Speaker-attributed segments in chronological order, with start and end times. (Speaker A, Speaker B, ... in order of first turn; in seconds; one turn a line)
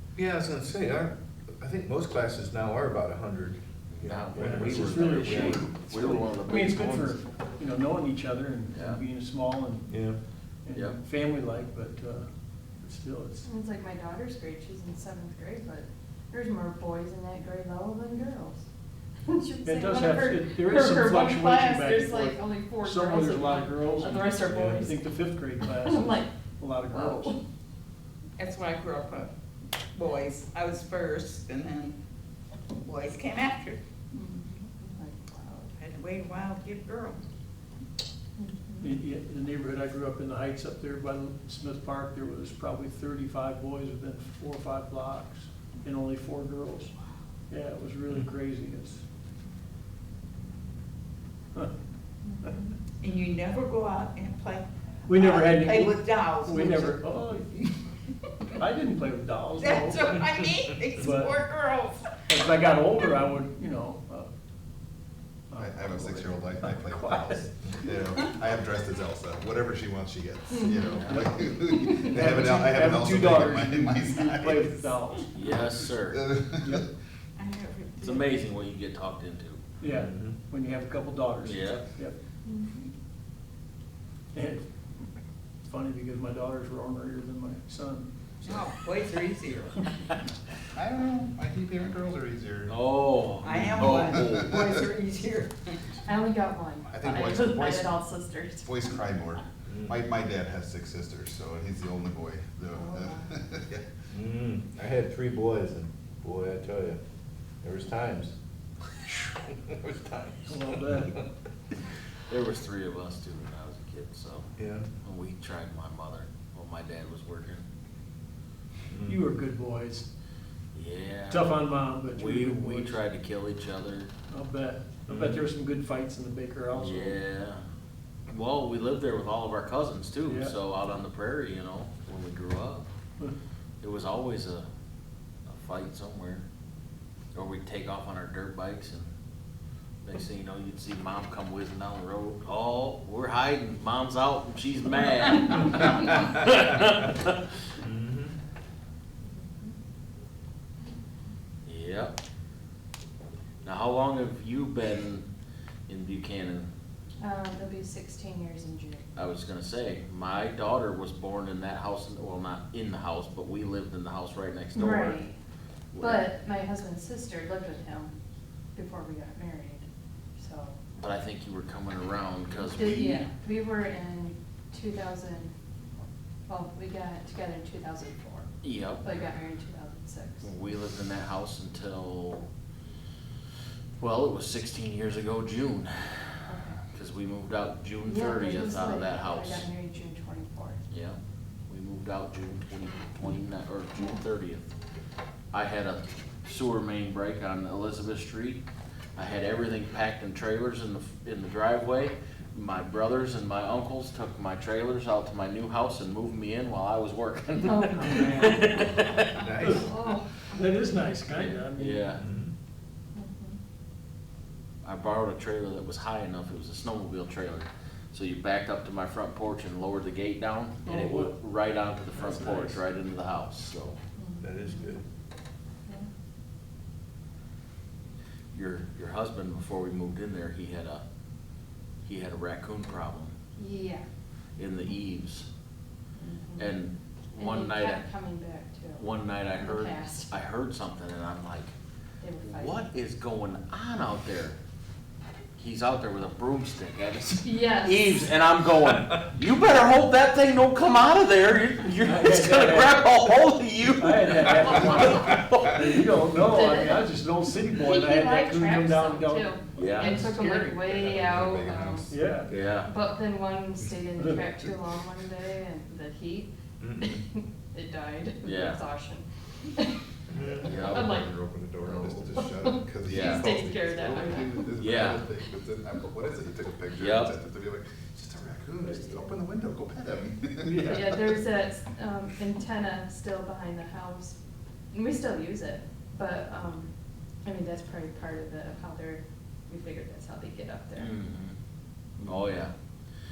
Speaker A: 0.1-5.7
Speaker B: 3.9-7.2
Speaker C: 4.3-10.0
Speaker B: 8.7-9.0
Speaker A: 9.9-10.2
Speaker C: 10.6-13.5
Speaker D: 13.4-18.6
Speaker D: 19.2-25.1
Speaker C: 19.6-27.4
Speaker A: 24.4-24.8
Speaker D: 25.6-27.4
Speaker E: 28.4-29.3
Speaker E: 29.9-31.9
Speaker E: 32.7-33.8
Speaker D: 34.1-35.7
Speaker E: 35.8-37.2
Speaker D: 38.4-39.0
Speaker C: 38.8-46.9
Speaker C: 47.5-49.0
Speaker D: 52.3-52.7
Speaker E: 53.0-57.0
Speaker C: 55.1-57.6
Speaker C: 58.6-60.2
Speaker E: 59.6-62.3
Speaker C: 61.0-61.3
Speaker C: 62.3-64.3
Speaker C: 65.5-67.5
Speaker F: 65.5-74.9
Speaker D: 70.5-71.0
Speaker C: 71.1-75.7
Speaker D: 71.7-72.2
Speaker B: 75.3-76.3
Speaker F: 76.0-76.9
Speaker E: 77.4-78.4
Speaker B: 78.0-79.6
Speaker C: 79.8-82.2
Speaker A: 79.9-80.4
Speaker B: 81.4-81.9
Speaker D: 82.4-82.8
Speaker C: 84.3-84.7
Speaker C: 85.6-88.1
Speaker E: 88.4-89.9
Speaker F: 90.7-92.7
Speaker B: 92.7-94.8
Speaker E: 93.4-95.9
Speaker F: 93.5-94.8
Speaker D: 95.9-98.8
Speaker F: 96.9-98.0
Speaker F: 98.6-103.9
Speaker A: 99.7-100.0
Speaker D: 102.7-103.3
Speaker A: 104.1-107.0
Speaker A: 107.6-108.3
Speaker A: 109.0-111.2
Speaker C: 110.5-111.2
Speaker B: 112.3-114.5
Speaker A: 114.6-114.9
Speaker B: 115.0-117.6
Speaker A: 118.9-119.2
Speaker C: 119.0-120.1
Speaker B: 120.7-121.5
Speaker C: 121.3-123.0
Speaker B: 122.1-124.1
Speaker C: 124.3-127.2
Speaker B: 125.1-125.4
Speaker B: 126.7-127.6
Speaker B: 128.3-132.9
Speaker C: 130.2-130.5
Speaker B: 133.8-134.7
Speaker B: 135.5-136.4
Speaker B: 137.3-139.1
Speaker B: 140.0-147.3
Speaker A: 147.8-148.3
Speaker D: 149.3-149.7
Speaker B: 151.7-152.1
Speaker B: 153.6-155.2
Speaker B: 155.9-156.7
Speaker D: 157.2-159.1
Speaker B: 159.1-165.2
Speaker D: 164.7-165.4
Speaker B: 165.9-166.3
Speaker D: 166.0-168.1
Speaker D: 168.7-169.8
Speaker D: 170.4-170.8
Speaker B: 170.9-173.3
Speaker D: 172.7-175.5
Speaker D: 176.5-178.5
Speaker B: 178.6-179.1
Speaker D: 179.0-180.5
Speaker B: 180.4-182.5
Speaker B: 184.0-189.7
Speaker D: 186.4-186.8
Speaker D: 188.0-190.8
Speaker B: 190.9-194.7
Speaker B: 195.5-198.6
Speaker B: 199.2-209.5
Speaker D: 207.6-209.0
Speaker C: 208.0-208.4
Speaker A: 209.3-209.9
Speaker D: 209.7-210.5
Speaker C: 210.5-212.2
Speaker B: 211.2-212.2
Speaker A: 212.2-212.5
Speaker D: 213.1-213.6
Speaker B: 214.8-224.0
Speaker C: 220.8-221.3
Speaker C: 222.1-222.8
Speaker D: 224.2-225.0
Speaker A: 224.4-225.0
Speaker B: 228.5-231.0
Speaker B: 232.0-233.3
Speaker D: 233.6-234.0
Speaker B: 234.6-235.5
Speaker D: 236.2-236.8
Speaker B: 236.6-238.1
Speaker D: 237.3-240.4
Speaker B: 238.9-241.7
Speaker D: 242.2-242.8
Speaker B: 242.4-244.6
Speaker B: 245.6-256.1
Speaker D: 247.4-248.3
Speaker C: 252.0-253.0
Speaker C: 253.9-260.3
Speaker D: 256.4-257.1
Speaker D: 257.7-262.1
Speaker B: 259.8-260.2
Speaker E: 260.5-260.8
Speaker F: 260.8-262.1
Speaker C: 262.1-262.5
Speaker B: 262.5-262.9
Speaker D: 262.7-271.3
Speaker C: 264.2-264.4
Speaker A: 266.8-267.2
Speaker B: 268.4-268.8
Speaker A: 270.3-270.7
Speaker F: 270.6-281.2
Speaker B: 270.6-271.2
Speaker B: 271.8-272.2
Speaker D: 272.4-274.7
Speaker B: 273.1-273.4
Speaker B: 274.8-275.2
Speaker B: 277.0-277.3
Speaker C: 280.7-281.0
Speaker D: 280.8-284.4
Speaker D: 284.9-286.9
Speaker D: 287.4-291.1
Speaker B: 290.9-291.5
Speaker D: 292.2-292.5
Speaker B: 292.2-292.7